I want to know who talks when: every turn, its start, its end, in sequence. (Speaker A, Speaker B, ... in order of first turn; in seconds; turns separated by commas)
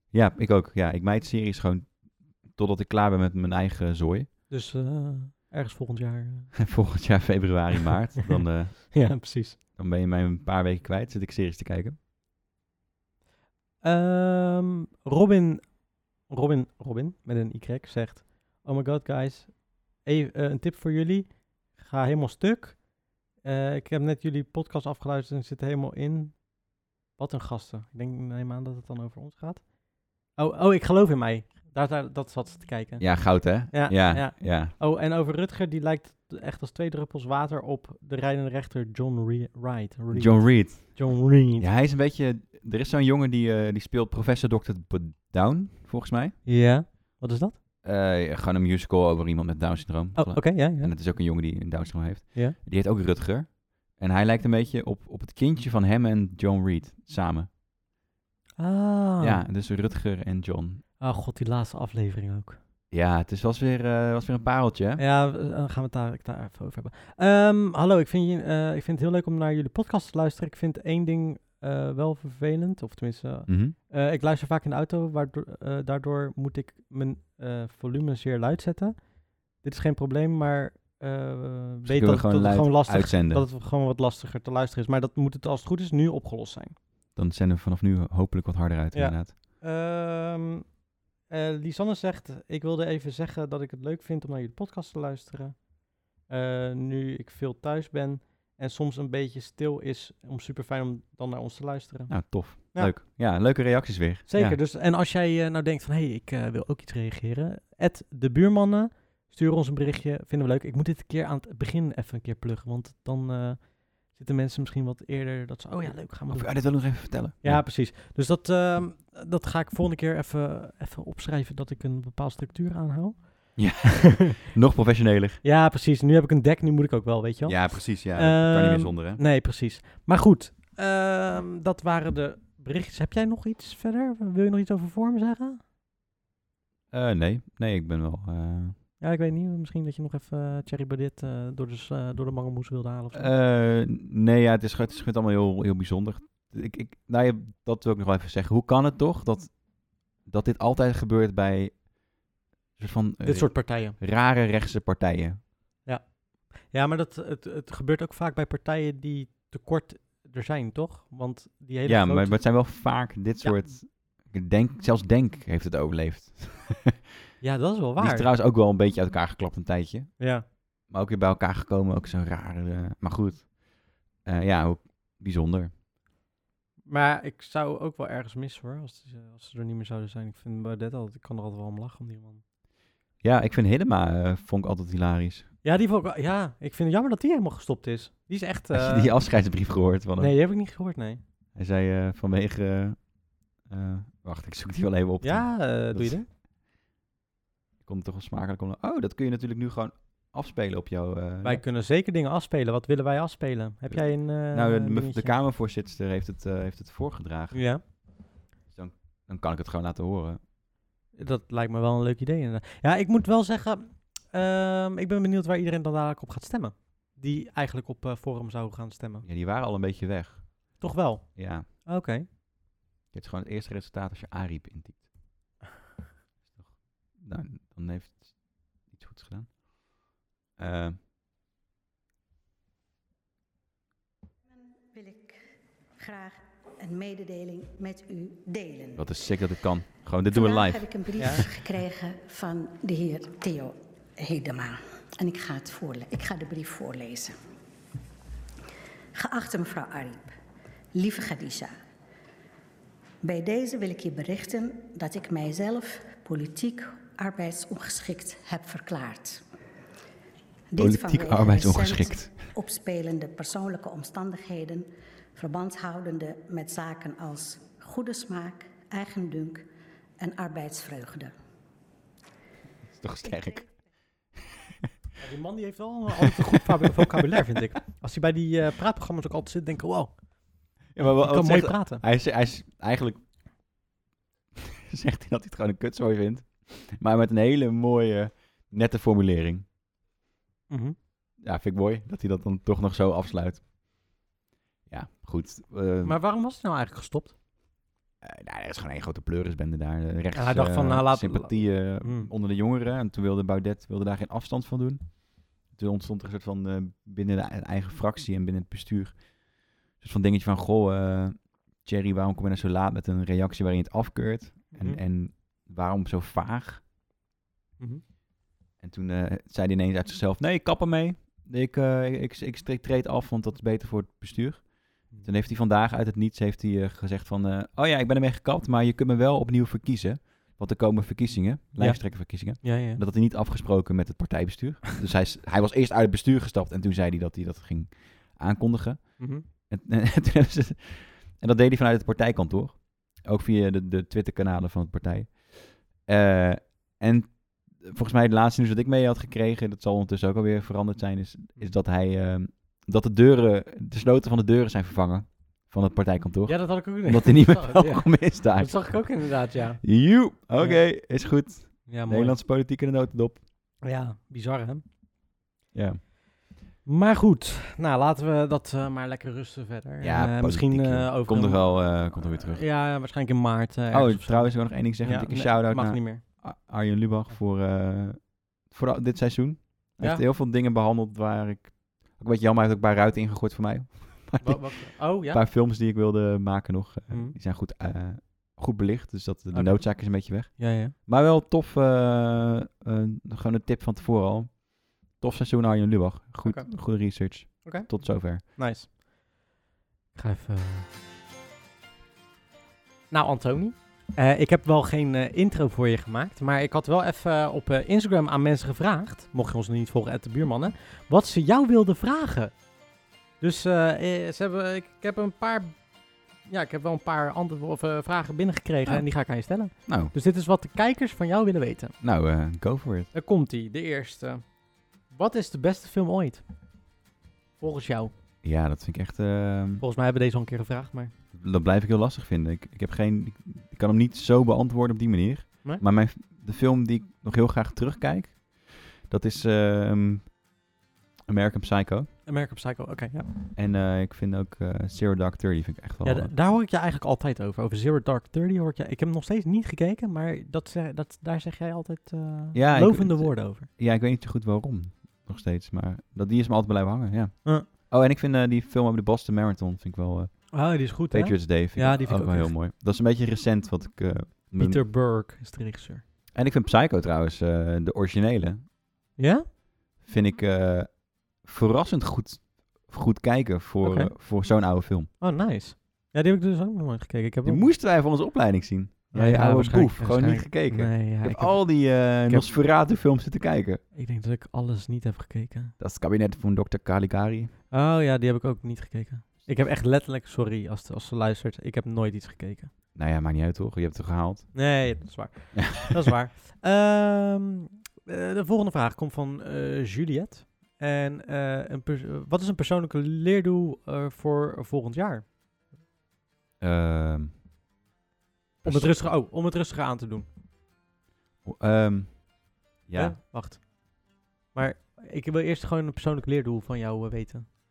Speaker A: 0.1-4.3, Speaker B: 4.5-6.6, Speaker A: 6.6-9.2, Speaker B: 8.9-9.6, Speaker A: 9.8-12.0, Speaker B: 13.8-26.6, Speaker B: 27.1-41.7, Speaker A: 33.0-34.7, Speaker A: 40.1-46.4, Speaker B: 46.4-47.6, Speaker A: 47.8-57.5, Speaker B: 50.1-50.9, Speaker B: 58.6-59.4, Speaker A: 59.2-60.8, Speaker B: 61.0-62.6, Speaker A: 62.9-65.0, Speaker B: 65.0-86.8, Speaker A: 73.5-73.7, Speaker A: 81.8-83.5, Speaker A: 87.1-89.3, Speaker B: 88.9-90.7, Speaker B: 91.3-95.7, Speaker B: 96.2-102.9, Speaker A: 102.1-104.6, Speaker B: 104.3-124.4, Speaker A: 116.3-117.6, Speaker A: 123.6-125.4, Speaker B: 125.4-135.6, Speaker A: 127.4-129.2, Speaker A: 136.9-138.8, Speaker B: 139.0-143.3, Speaker A: 143.1-151.9, Speaker A: 152.8-155.4, Speaker B: 153.2-154.0, Speaker B: 155.8-162.4, Speaker A: 161.8-166.9, Speaker B: 167.4-168.3, Speaker A: 168.0-173.6, Speaker B: 170.2-170.4, Speaker A: 174.1-175.7, Speaker B: 176.8-182.4, Speaker A: 183.2-185.5, Speaker B: 185.6-189.1, Speaker A: 188.7-190.3, Speaker B: 190.2-191.2, Speaker A: 191.5-196.2, Speaker B: 195.2-196.3, Speaker A: 197.8-201.6, Speaker B: 201.4-205.3, Speaker A: 203.9-208.0, Speaker B: 207.5-207.8, Speaker A: 208.7-210.4, Speaker B: 211.1-219.2, Speaker A: 219.2-220.8, Speaker B: 220.8-222.3, Speaker A: 221.3-221.7, Speaker A: 223.1-225.1, Speaker A: 226.5-231.0, Speaker C: 234.8-239.1, Speaker A: 239.0-241.4, Speaker C: 240.3-247.4, Speaker B: 241.2-241.4, Speaker C: 249.1-250.3, Speaker C: 250.9-251.7, Speaker C: 253.2-259.4, Speaker C: 260.7-269.7, Speaker A: 260.8-262.4, Speaker C: 270.2-271.3, Speaker A: 272.9-273.8, Speaker B: 275.2-280.2, Speaker A: 280.9-283.2, Speaker B: 281.0-282.0, Speaker A: 284.7-289.7, Speaker B: 290.7-290.9, Speaker A: 291.4-293.7, Speaker A: 294.9-296.1, Speaker B: 296.0-297.3, Speaker A: 298.2-316.8, Speaker B: 300.3-302.3, Speaker B: 314.7-315.0, Speaker A: 318.8-359.1, Speaker B: 331.8-333.0, Speaker B: 339.2-339.4, Speaker B: 356.4-360.0, Speaker A: 359.8-363.4, Speaker B: 360.6-360.9, Speaker B: 361.9-362.4, Speaker B: 363.8-364.8, Speaker A: 365.7-366.0, Speaker B: 366.8-376.2, Speaker A: 370.0-372.7, Speaker A: 373.9-398.4, Speaker B: 380.0-380.2, Speaker B: 384.4-385.4, Speaker B: 387.1-387.4, Speaker B: 389.5-390.9, Speaker B: 396.4-397.1, Speaker B: 397.6-398.9, Speaker B: 400.1-400.9, Speaker B: 403.1-412.6, Speaker B: 413.4-415.9, Speaker B: 416.4-421.9, Speaker A: 419.7-420.1, Speaker A: 422.0-423.1, Speaker B: 423.1-424.5, Speaker B: 425.1-426.4, Speaker B: 427.6-428.1, Speaker A: 428.4-429.8, Speaker B: 429.8-431.1, Speaker A: 431.3-440.4, Speaker A: 441.3-442.1, Speaker B: 442.2-443.4, Speaker A: 443.5-446.3, Speaker B: 446.0-453.7, Speaker A: 452.5-464.8, Speaker B: 460.5-462.5, Speaker B: 464.6-466.0, Speaker A: 466.3-468.6, Speaker B: 469.2-469.5, Speaker A: 470.0-475.1, Speaker B: 473.8-474.1, Speaker B: 475.2-477.7, Speaker A: 477.4-483.8, Speaker B: 479.1-482.5, Speaker B: 483.9-485.7, Speaker A: 485.8-487.5, Speaker B: 487.7-492.7, Speaker A: 492.9-494.6, Speaker B: 494.5-505.2, Speaker A: 495.5-496.1, Speaker A: 506.6-507.3, Speaker A: 508.6-509.0, Speaker B: 508.6-510.3, Speaker A: 511.4-512.3, Speaker A: 512.8-513.2, Speaker B: 512.9-513.7, Speaker B: 514.5-517.5